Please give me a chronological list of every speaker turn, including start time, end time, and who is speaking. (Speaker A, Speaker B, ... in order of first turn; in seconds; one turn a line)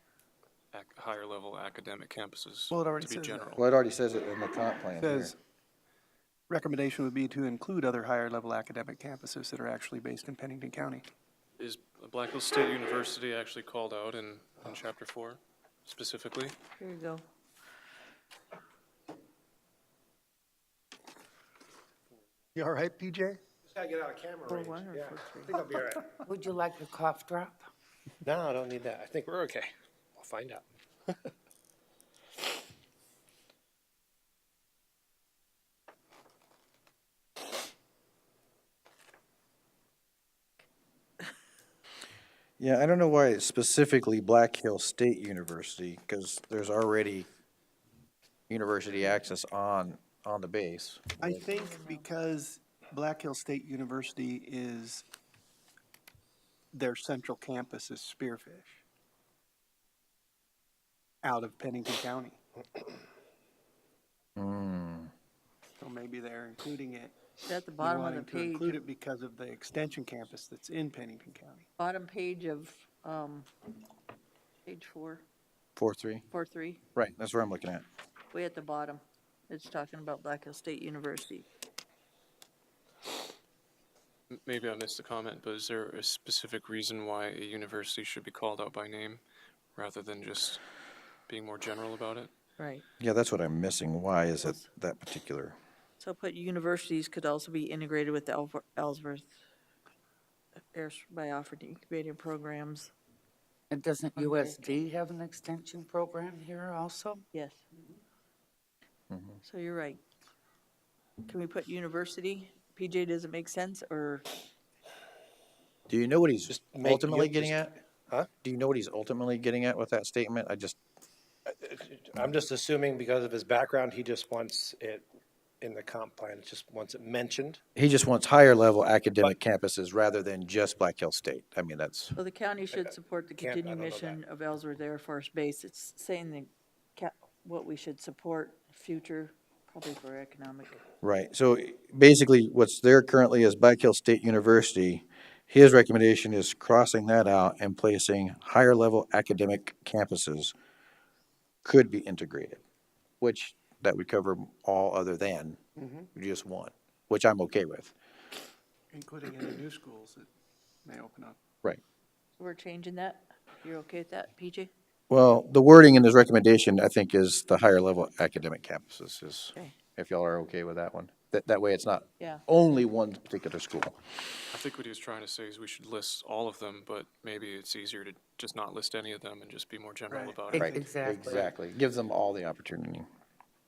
Speaker A: 0.7-3.5
Speaker B: 2.7-3.6
Speaker C: 3.5-5.3
Speaker B: 5.0-5.3
Speaker B: 6.5-11.1
Speaker A: 11.6-16.6
Speaker D: 16.8-17.2
Speaker B: 22.5-23.4
Speaker E: 23.6-26.2
Speaker D: 24.5-25.6
Speaker F: 26.2-27.6
Speaker E: 28.2-31.3
Speaker C: 42.6-47.3
Speaker C: 48.5-51.4
Speaker B: 51.2-55.0
Speaker D: 51.3-52.1
Speaker B: 56.7-58.8
Speaker B: 61.2-62.4
Speaker C: 64.3-65.1
Speaker B: 65.8-71.7
Speaker D: 67.4-68.8
Speaker D: 71.8-73.5
Speaker D: 74.7-75.2
Speaker C: 75.8-76.2
Speaker D: 76.3-76.8
Speaker C: 76.9-77.8
Speaker D: 78.3-81.5
Speaker A: 84.3-89.2
Speaker A: 89.8-90.6
Speaker A: 91.3-92.3
Speaker D: 92.6-92.8
Speaker C: 93.0-95.5
Speaker D: 96.0-99.4
Speaker D: 100.7-102.9
Speaker F: 103.7-107.2
Speaker D: 104.2-104.8
Speaker D: 107.3-107.6
Speaker C: 109.1-109.4
Speaker D: 109.4-110.0
Speaker D: 111.2-114.3
Speaker C: 115.9-117.7
Speaker E: 116.5-118.3
Speaker C: 118.4-120.8
Speaker E: 121.5-125.1
Speaker E: 125.6-127.6
Speaker C: 127.8-132.2
Speaker D: 132.2-140.8
Speaker E: 132.7-134.2
Speaker C: 141.0-150.5
Speaker C: 151.6-152.6
Speaker C: 153.2-155.6
Speaker C: 156.1-157.9
Speaker B: 158.9-160.3
Speaker B: 160.8-161.4
Speaker D: 162.4-164.7
Speaker C: 165.1-174.0
Speaker A: 174.5-180.9
Speaker B: 180.1-180.4
Speaker F: 180.5-181.5
Speaker C: 180.5-183.1